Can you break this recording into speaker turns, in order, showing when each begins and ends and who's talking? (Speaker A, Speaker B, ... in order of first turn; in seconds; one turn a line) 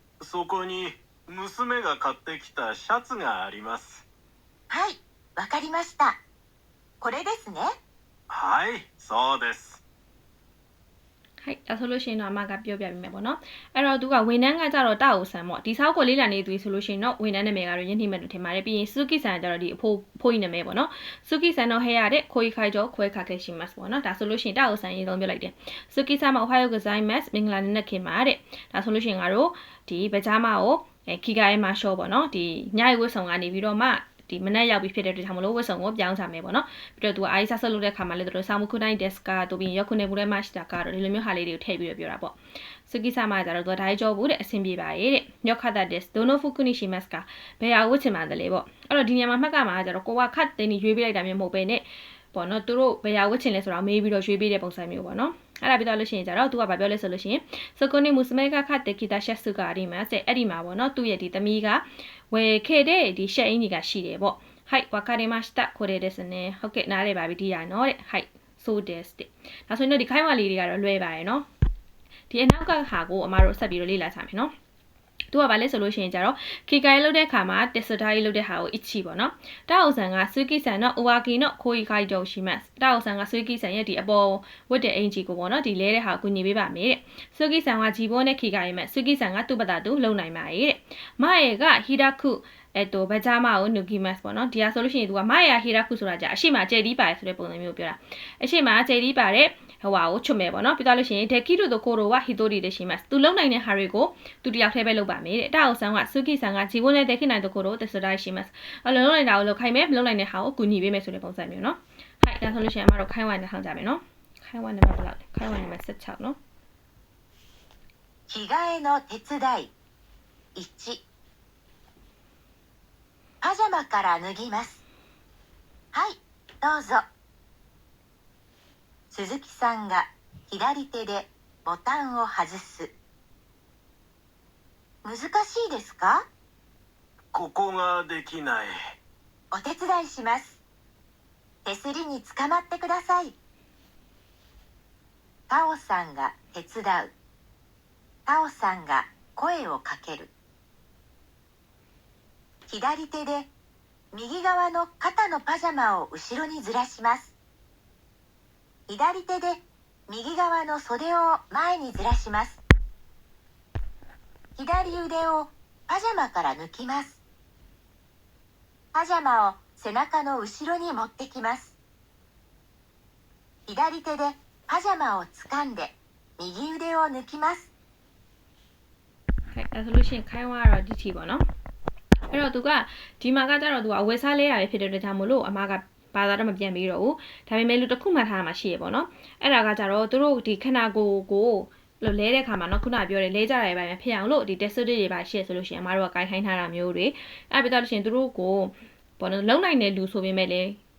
Speaker A: 0.2-4.0
Speaker B: 4.7-6.2
Speaker B: 7.0-7.7
Speaker A: 8.3-9.8
Speaker C: 11.4-42.4
Speaker C: 42.9-71.5
Speaker C: 72.3-74.5
Speaker C: 75.3-116.4
Speaker B: 118.3-119.7
Speaker B: 120.5-121.0
Speaker B: 123.4-124.8
Speaker B: 125.9-127.0
Speaker B: 129.1-132.9
Speaker B: 135.0-136.2
Speaker A: 137.3-138.8
Speaker B: 139.5-140.6
Speaker B: 141.7-143.4
Speaker B: 145.5-147.1
Speaker B: 148.3-150.3
Speaker B: 152.7-153.5
Speaker B: 154.1-157.3
Speaker B: 158.9-162.6
Speaker B: 164.6-167.2
Speaker B: 168.9-171.8
Speaker B: 173.7-177.7
Speaker C: 179.5-181.5
Speaker C: 182.3-200.8